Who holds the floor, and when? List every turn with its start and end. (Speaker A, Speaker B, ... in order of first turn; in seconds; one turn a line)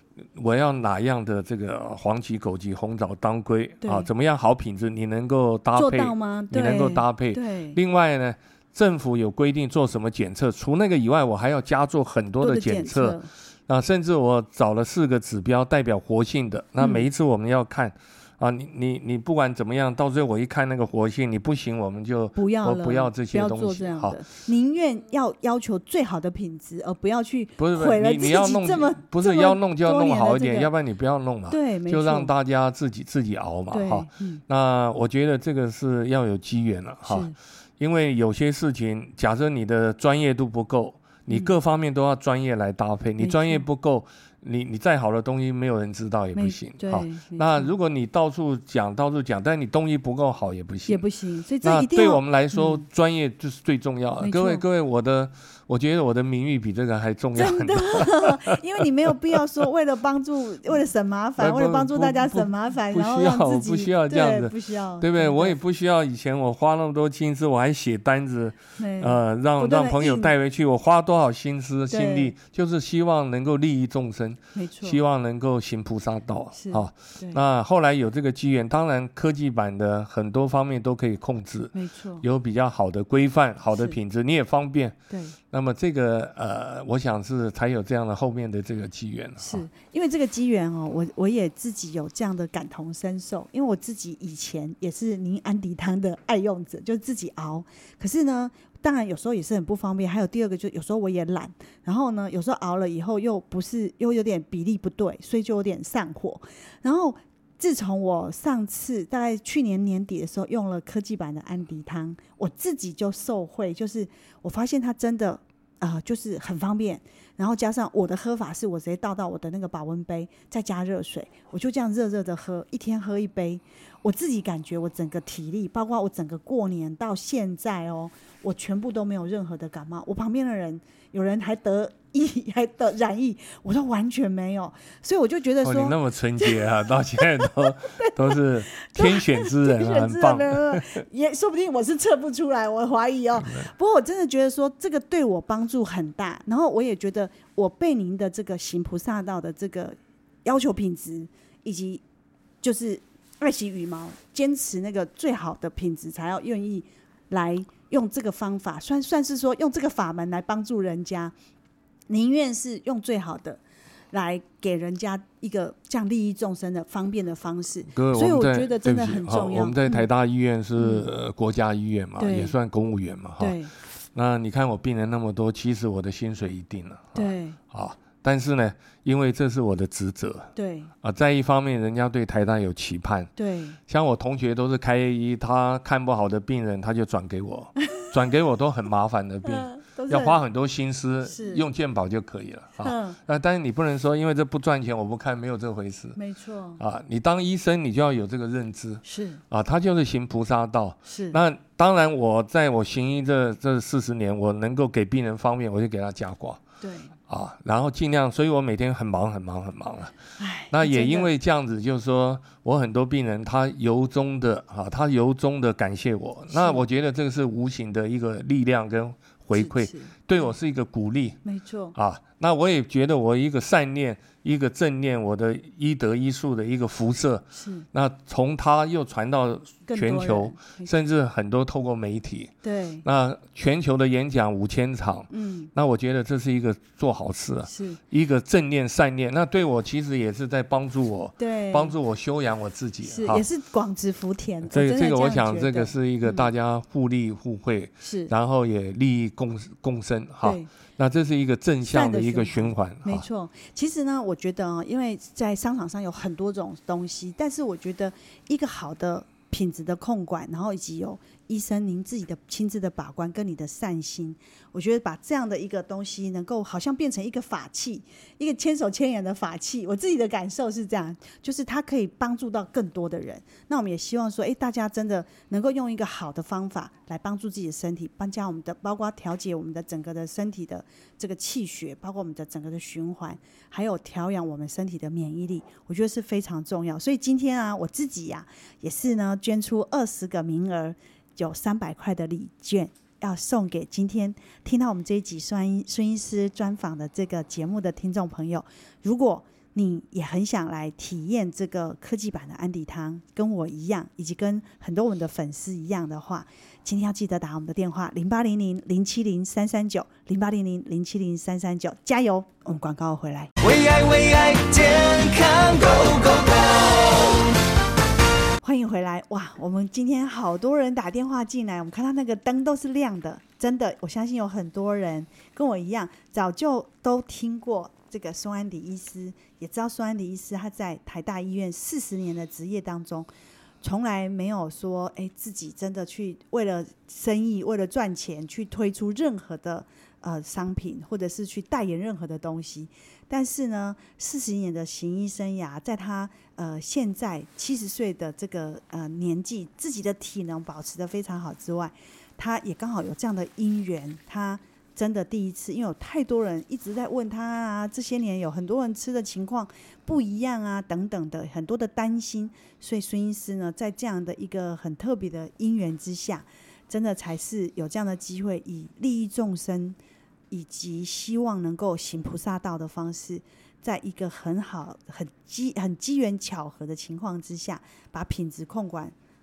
Speaker A: 0.3-24.2
Speaker B: 3.8-4.1
Speaker B: 5.8-7.8
Speaker B: 12.4-13.3
Speaker B: 16.8-17.1
Speaker B: 22.4-30.7
Speaker A: 27.6-51.0
Speaker B: 31.5-32.3
Speaker B: 33.7-34.4
Speaker B: 37.1-37.4
Speaker B: 43.2-43.6
Speaker B: 46.3-47.7
Speaker B: 50.9-52.9
Speaker A: 51.6-59.4
Speaker B: 54.2-54.6
Speaker B: 57.4-65.6
Speaker A: 61.4-85.0
Speaker B: 68.8-70.3
Speaker B: 71.9-72.3
Speaker B: 74.5-75.0
Speaker B: 76.5-77.4
Speaker B: 81.7-82.2
Speaker B: 85.1-85.4
Speaker A: 85.5-89.7
Speaker B: 89.4-152.0
Speaker A: 135.6-141.0
Speaker B: 152.6-161.3
Speaker B: 162.1-170.1
Speaker A: 167.9-173.6
Speaker B: 170.8-171.1
Speaker B: 172.2-172.6
Speaker B: 173.4-173.7
Speaker A: 174.2-180.5
Speaker B: 177.2-177.6
Speaker B: 180.6-180.9
Speaker A: 181.0-183.3
Speaker B: 183.4-183.8
Speaker A: 183.9-196.2
Speaker B: 189.5-190.4
Speaker B: 191.2-191.7
Speaker B: 192.8-193.2
Speaker B: 196.2-196.8
Speaker A: 196.8-206.6
Speaker B: 199.1-199.4
Speaker B: 201.1-201.4
Speaker B: 206.8-207.1
Speaker A: 207.3-210.2
Speaker B: 210.4-211.3
Speaker A: 210.7-221.4
Speaker B: 216.5-216.8
Speaker B: 219.5-220.5
Speaker B: 221.4-221.9
Speaker A: 221.9-232.5
Speaker B: 227.5-227.9
Speaker B: 229.9-230.9
Speaker B: 232.6-233.1
Speaker A: 233.0-243.4
Speaker B: 235.3-235.7
Speaker B: 237.7-238.0
Speaker B: 241.4-242.0
Speaker B: 243.0-246.5
Speaker A: 244.7-253.3
Speaker B: 248.0-248.3
Speaker B: 250.4-250.7
Speaker B: 251.8-313.5
Speaker C: 313.6-317.6
Speaker B: 318.6-333.3
Speaker B: 333.8-370.0
Speaker B: 370.5-379.1